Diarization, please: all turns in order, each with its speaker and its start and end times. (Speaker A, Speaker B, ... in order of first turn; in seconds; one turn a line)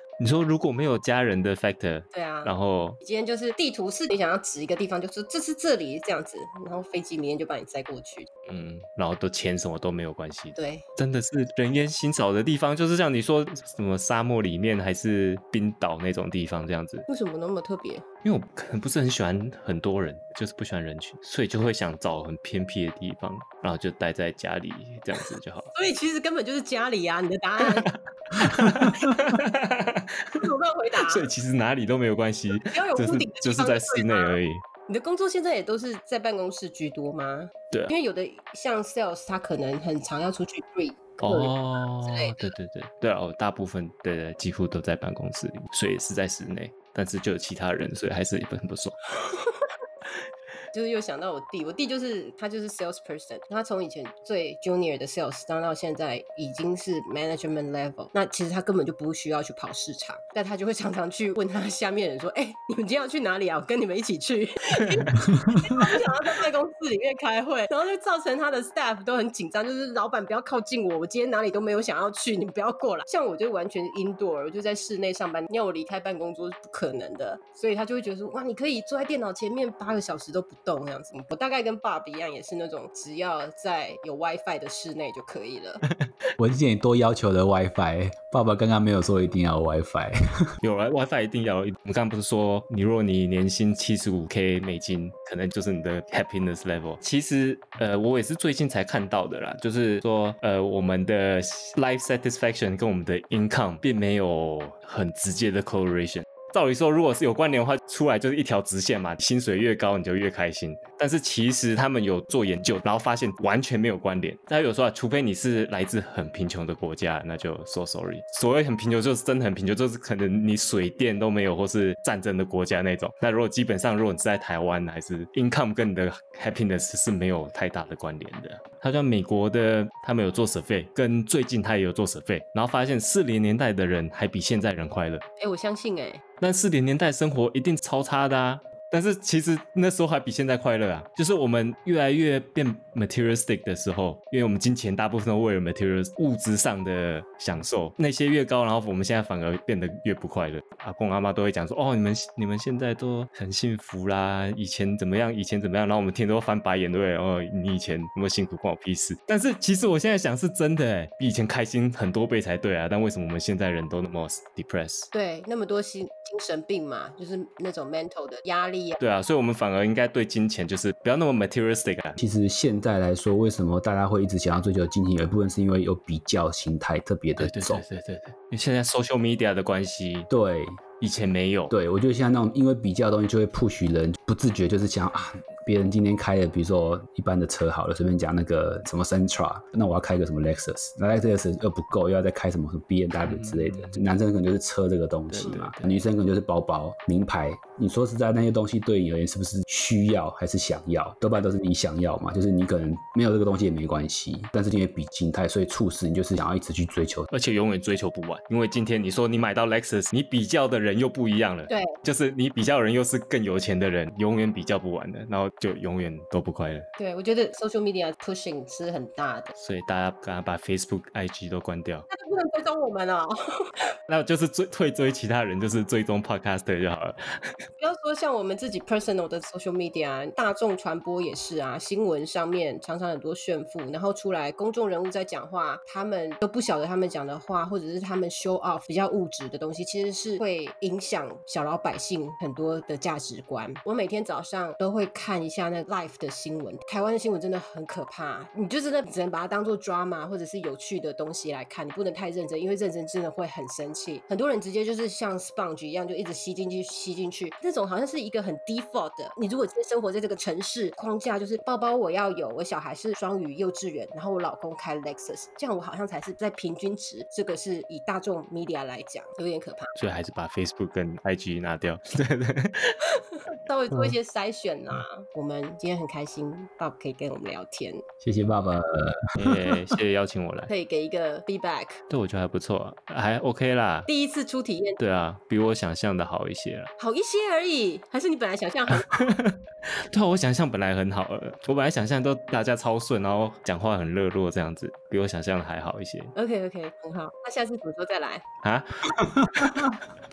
Speaker A: 0.2-3.0
Speaker B: 2.1-8.3
Speaker A: 8.4-17.0
Speaker B: 10.6-10.8
Speaker B: 17.1-18.0
Speaker A: 18.2-25.7
Speaker B: 25.7-27.9
Speaker A: 27.6-30.5
Speaker B: 30.3-31.3
Speaker A: 31.0-34.6
Speaker B: 32.5-42.5
Speaker A: 41.2-49.0
Speaker B: 49.2-49.6
Speaker B: 50.7-85.8
Speaker C: 86.4-90.5
Speaker A: 90.6-135.2
Speaker B: 135.4-136.2
Speaker A: 136.4-165.1
Speaker B: 165.1-169.0
Speaker A: 169.0-172.2
Speaker C: 172.2-177.8
Speaker A: 177.4-180.3
Speaker C: 180.3-180.8
Speaker A: 181.0-181.7
Speaker C: 181.7-207.3
Speaker A: 193.2-194.0
Speaker A: 195.3-195.9
Speaker A: 207.3-216.9
Speaker B: 211.7-211.9
Speaker B: 217.0-219.5
Speaker A: 219.6-222.1
Speaker B: 222.1-223.7
Speaker A: 224.1-227.6
Speaker B: 227.8-269.9
Speaker A: 269.9-273.1
Speaker B: 273.6-278.0
Speaker A: 273.9-274.2
Speaker C: 278.2-279.8
Speaker A: 279.4-280.7
Speaker B: 280.7-282.0
Speaker A: 282.1-284.1
Speaker B: 284.1-285.0
Speaker A: 285.0-286.9
Speaker B: 287.0-289.4
Speaker A: 289.1-296.3
Speaker B: 296.3-298.4
Speaker A: 298.6-299.8
Speaker C: 299.1-300.0